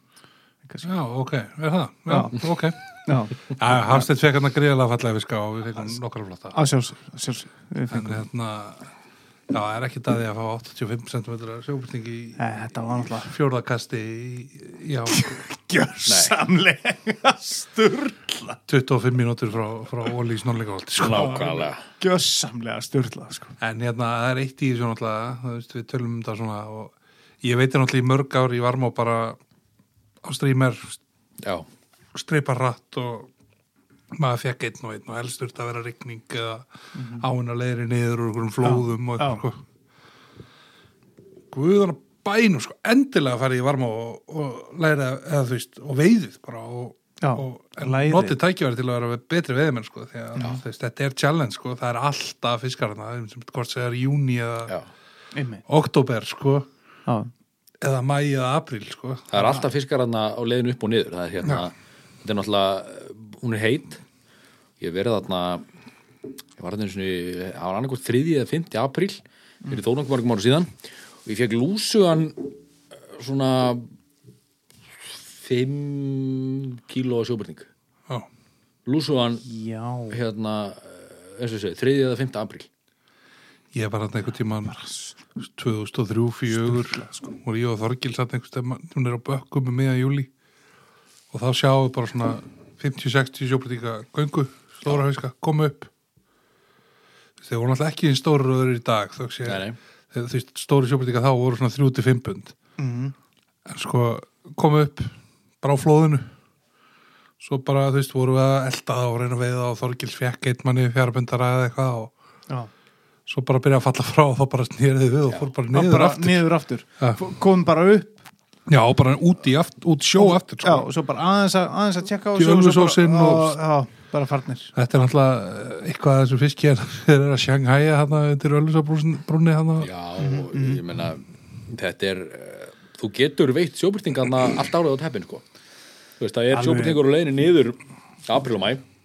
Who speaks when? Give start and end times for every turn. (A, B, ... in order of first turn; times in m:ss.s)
0:00.8-0:02.8 A
0:02.1-0:02.4 B
0:03.0-0:04.0 B
0:03.4-0:06.6 A
0:06.5-0:08.2 B
0:07.9-0:08.9 A
0:09.5-0:12.4 A
0:12.4-0:13.4 B
0:13.2-0:15.4 A
0:15.1-0:18.6 B
0:16.0-0:16.3 C
0:18.7-0:21.2 A
0:21.0-0:21.8 C
0:21.0-0:23.5 B
0:23.6-0:29.4 A
0:30.2-0:31.0 A
0:31.4-0:31.7 C
0:32.1-0:33.3 A
0:34.1-0:36.6 A
0:36.9-0:37.2 B
0:37.2-0:39.6 A
0:38.6-0:39.4 B
0:41.5-0:54.8 A
0:47.2-0:48.4 B
0:50.3-0:50.6 B
0:55.3-0:55.6 B
0:55.7-0:56.6 A
0:57.8-0:59.3 A
0:59.3-1:04.0 C
1:04.8-1:05.6 C
1:06.6-1:10.7 C
1:11.2-1:12.6 C
1:13.1-1:13.8 C
1:15.0-1:17.7 C
1:18.8-1:19.4 C
1:19.4-1:20.2 B
1:20.1-1:22.7 C
1:23.7-1:24.8 A
1:24.6-1:25.1 B
1:25.4-1:30.3 A
1:26.5-1:27.3 B
1:31.3-1:35.9 A
1:37.4-1:42.6 A
1:39.4-1:39.8 C
1:42.8-1:43.1 B
1:43.7-1:46.3 A
1:47.4-1:52.1 A
1:53.3-1:56.4 A
1:55.7-1:58.2 B
1:58.7-2:00.9 A
2:00.2-2:04.7 B
2:02.4-2:03.6 A
2:04.7-2:09.9 A
2:09.8-2:15.4 C
2:10.2-2:10.8 B
2:16.2-2:18.8 C
2:16.5-2:17.0 B